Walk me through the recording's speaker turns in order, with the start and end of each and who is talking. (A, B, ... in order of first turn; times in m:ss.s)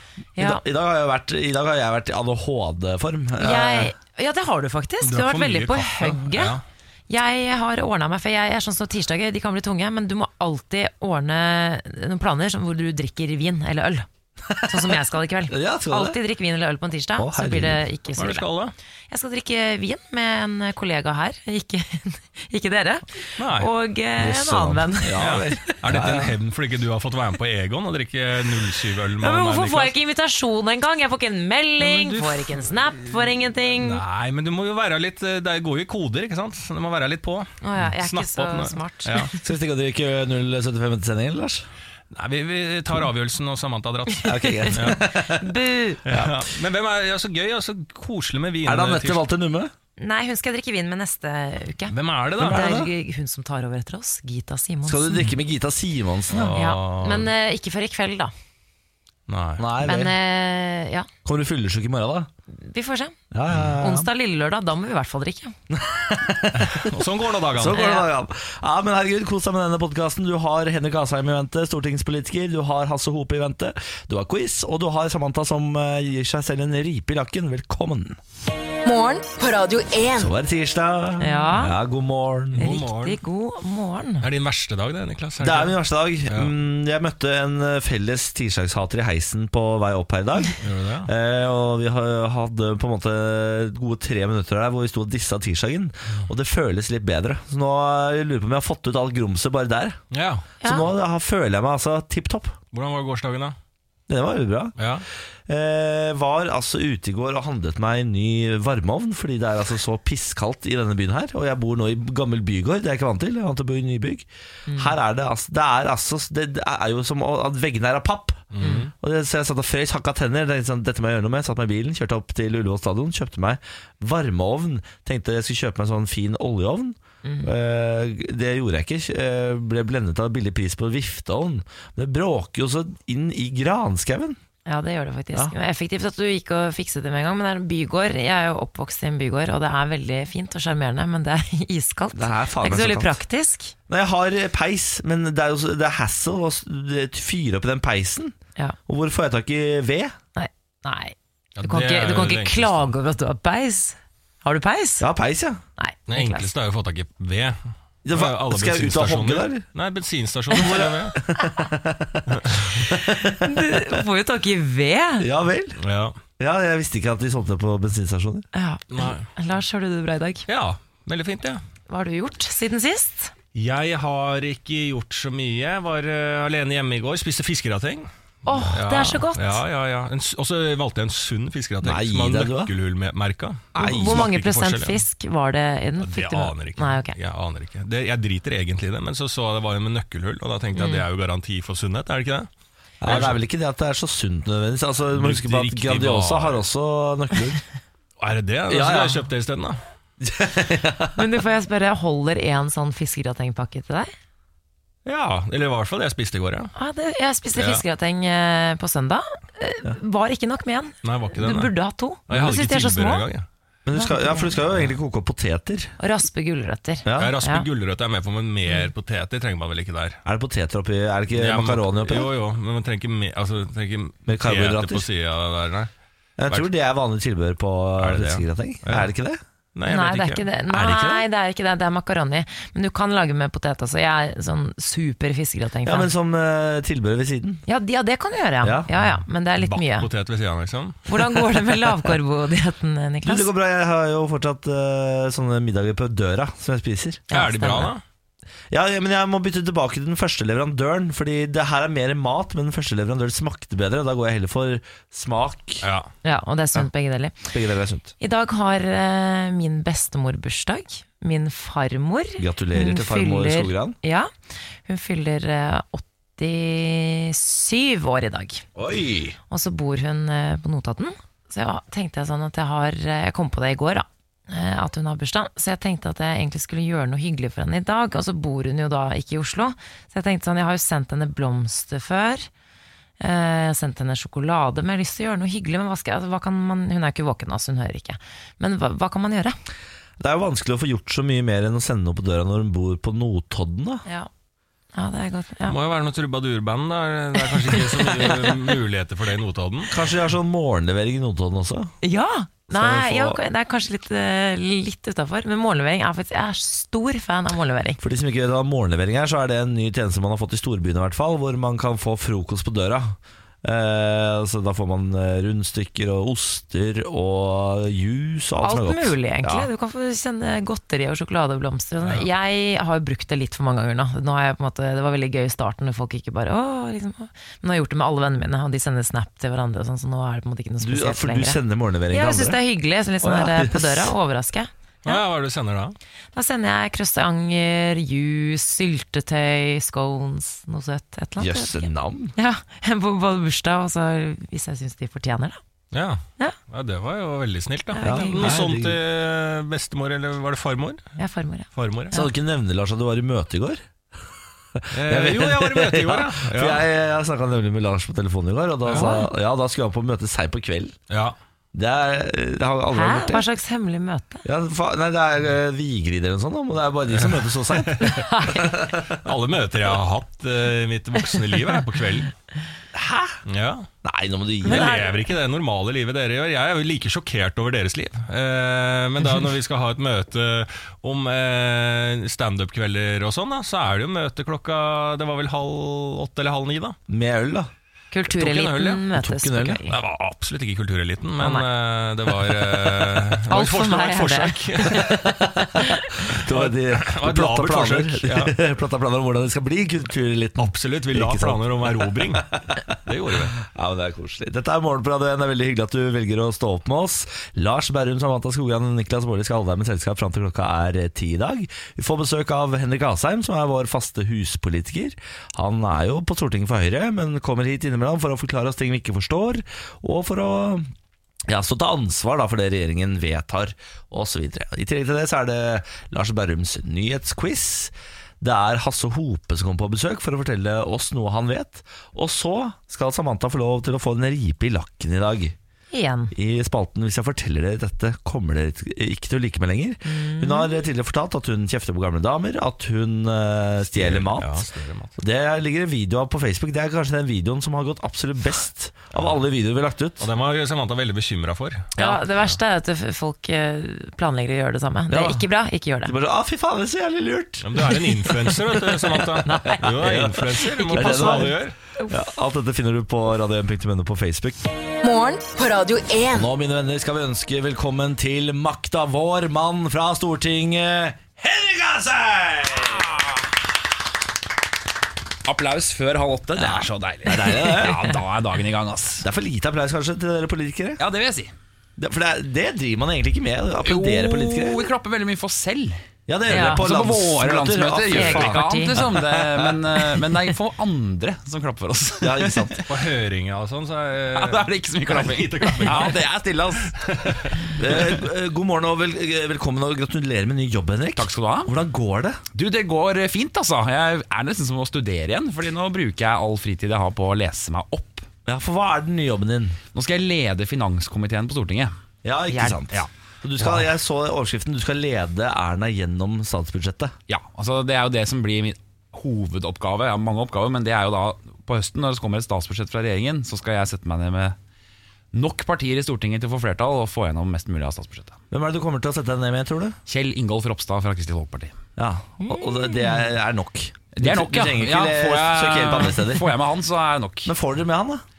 0:00.4-0:00.6 A
0:00.4-0:03.9 B
0:03.4-0:06.6 A
0:05.0-0:06.6 C
0:07.1-0:14.1 A
0:14.4-0:15.0 B
0:14.6-0:18.5 A
0:15.5-0:16.2 B
0:17.2-0:17.8 B
0:18.2-0:18.7 C
0:19.1-0:25.3 A
0:23.4-0:23.7 C
0:24.2-0:26.4 B
0:25.2-0:29.9 C
0:29.2-0:34.0 A
0:31.8-0:32.7 C
0:33.8-0:39.3 C
0:37.6-0:39.4 A
0:39.4-0:41.7 B
0:42.1-0:45.0 C
0:44.2-0:46.2 A
0:44.2-0:45.5 B
0:46.0-0:49.2 C
0:48.6-0:49.7 B
0:50.0-0:55.3 A
0:51.9-0:52.6 C
0:52.4-0:52.9 B
0:54.8-0:56.6 B
0:56.3-0:57.3 C
0:56.5-0:58.3 A
0:59.3-0:59.6 C
0:59.6-1:00.1 B
0:59.8-1:01.1 A
1:01.2-1:02.3 B
1:02.5-1:03.2 A
1:03.3-1:04.1 B
1:03.8-1:05.5 A
1:05.7-1:18.2 B
1:06.6-1:07.8 C
1:07.7-1:08.1 A
1:18.8-1:20.3 D
1:20.2-1:22.7 B
1:21.2-1:21.8 A
1:22.5-1:23.2 C
1:22.6-1:24.3 A
1:24.2-1:25.7 C
1:25.4-1:40.0 B
1:26.3-1:26.5 C
1:30.6-1:31.1 C
1:40.1-1:40.5 C
1:40.6-1:40.9 A
1:40.6-1:42.5 B
1:42.7-1:43.6 C
1:44.1-1:44.8 B
1:44.8-1:45.0 C
1:45.5-2:14.4 B
1:54.7-1:54.9 A
1:58.5-1:58.9 C
1:58.6-1:58.9 A
2:07.2-2:07.5 A
2:14.6-2:23.7 A
2:22.1-2:23.2 B
2:23.9-2:28.4 B
2:28.9-2:30.1 B
2:30.4-2:35.0 A
2:31.6-2:32.8 C
2:35.0-2:35.6 B
2:35.8-2:36.5 A
2:36.1-2:37.6 C
2:38.0-2:39.6 B
2:38.1-2:41.2 C
2:40.5-2:43.9 B
2:42.3-2:42.7 C
2:42.9-2:45.3 A
2:45.2-2:45.8 B
2:45.8-2:46.2 C
2:46.4-2:48.4 B
2:48.5-2:50.4 A
2:48.9-2:49.3 C
2:50.5-2:51.6 C
2:51.9-2:53.3 A
2:53.5-2:58.1 C
2:58.4-2:59.6 A
2:58.6-3:05.0 C
3:01.8-3:02.7 B
3:03.7-3:04.3 B
3:03.7-3:07.2 A
3:06.0-3:12.5 C
3:10.7-3:11.0 A
3:13.0-3:17.6 B
3:13.0-3:13.4 C
3:15.2-3:16.6 C
3:18.2-3:19.8 C
3:18.7-3:19.2 B
3:20.2-3:21.2 B
3:21.2-3:24.1 A
3:25.0-3:26.7 C
3:26.8-3:33.3 A
3:27.6-3:27.8 C
3:31.0-3:31.7 C
3:32.3-3:33.4 C
3:33.8-3:35.9 B
3:33.9-3:34.6 A
3:36.0-3:37.7 A
3:37.0-3:37.3 B
3:37.1-3:40.2 C
3:38.6-3:38.9 A
3:40.2-3:42.3 B
3:41.3-3:45.9 C
3:44.3-3:45.0 B
3:46.4-3:49.4 B
3:48.0-3:49.1 C
3:49.7-3:50.5 C
3:49.9-3:56.1 A
3:50.7-3:51.3 B
3:55.8-3:57.6 B
3:57.7-4:00.1 A
3:58.6-3:58.9 B
3:59.6-4:01.6 C
4:01.0-4:03.5 A
4:03.2-4:07.4 B
4:07.3-4:07.9 A
4:07.3-4:08.0 C
4:08.7-4:15.9 B
4:15.8-4:16.1 C
4:16.2-4:17.5 A
4:17.5-4:18.1 B
4:18.2-4:24.3 A
4:22.4-4:24.0 B
4:24.8-4:28.6 A
4:28.7-4:29.4 B
4:29.5-4:42.5 A
4:43.2-4:49.6 A
4:50.2-4:54.0 B
4:54.9-4:55.8 A
4:55.6-5:00.0 C
4:57.5-4:58.5 A
4:59.9-5:01.9 B
5:02.0-5:08.0 A
5:02.7-5:03.4 B
5:08.0-5:19.7 B
5:18.6-5:35.2 A
5:30.8-5:32.6 B
5:33.2-5:34.1 B
5:35.0-5:36.0 C
5:36.3-5:45.6 A
5:41.4-5:42.3 B
5:45.9-5:51.0 C
5:47.9-5:48.6 A
5:48.0-5:49.0 B
5:51.2-5:52.3 A
5:51.7-5:52.1 C
5:52.1-5:53.8 B
5:54.8-6:00.9 B
5:54.9-5:56.8 C
5:58.9-5:59.2 C
5:58.9-5:59.3 A
6:01.1-6:01.3 C
6:01.7-6:03.5 B
6:02.9-6:04.4 A
6:04.4-6:09.2 B
6:07.1-6:08.2 C
6:08.0-6:08.7 A
6:09.1-6:12.3 C
6:12.9-6:13.4 B
6:13.4-6:13.8 C
6:14.0-6:15.1 B
6:14.6-6:15.2 A
6:14.6-6:27.0 C
6:27.1-6:27.7 B
6:28.1-6:29.9 A
6:28.3-6:29.0 C
6:29.1-6:29.8 B
6:29.9-6:35.2 C
6:31.4-6:31.7 A
6:33.5-6:36.2 A
6:35.0-6:42.9 B
6:36.4-6:38.6 C
6:40.6-6:43.5 C
6:43.6-7:00.9 B
7:01.5-7:15.6 B
7:15.9-7:16.3 A
7:16.3-7:24.6 B
7:20.0-7:20.8 A
7:23.9-7:25.2 C
7:25.2-7:30.2 B
7:30.2-7:31.9 C
7:32.0-7:36.1 A
7:35.1-7:35.4 B
7:36.0-7:38.0 B
7:37.6-7:41.7 C
7:39.4-7:39.9 A
7:39.6-7:44.6 B
7:40.6-7:42.2 A
7:45.0-7:46.5 D
7:46.3-7:53.4 B
7:55.4-7:59.3 E
7:56.5-7:58.2 B
7:59.2-8:01.0 B
8:01.0-8:01.5 E
8:02.0-8:04.9 B
8:03.8-8:12.8 E
8:06.3-8:10.1 B
8:06.5-8:06.9 A
8:08.1-8:09.0 A
8:12.2-8:12.8 B
8:12.9-8:16.2 C
8:14.3-8:17.0 E
8:16.8-8:17.8 C
8:17.7-8:22.4 B
8:21.2-8:21.7 E
8:22.5-8:28.2 E
8:28.4-8:29.8 B
8:29.9-8:31.9 E
8:32.2-8:37.1 B
8:32.5-8:32.8 A
8:32.8-8:33.8 E
8:37.3-8:44.6 E
8:45.3-8:48.4 E
8:48.5-8:50.0 B
8:50.1-8:51.8 E
8:52.0-8:56.5 B
8:52.4-8:53.2 A
8:54.1-8:57.5 E
8:57.4-8:58.2 B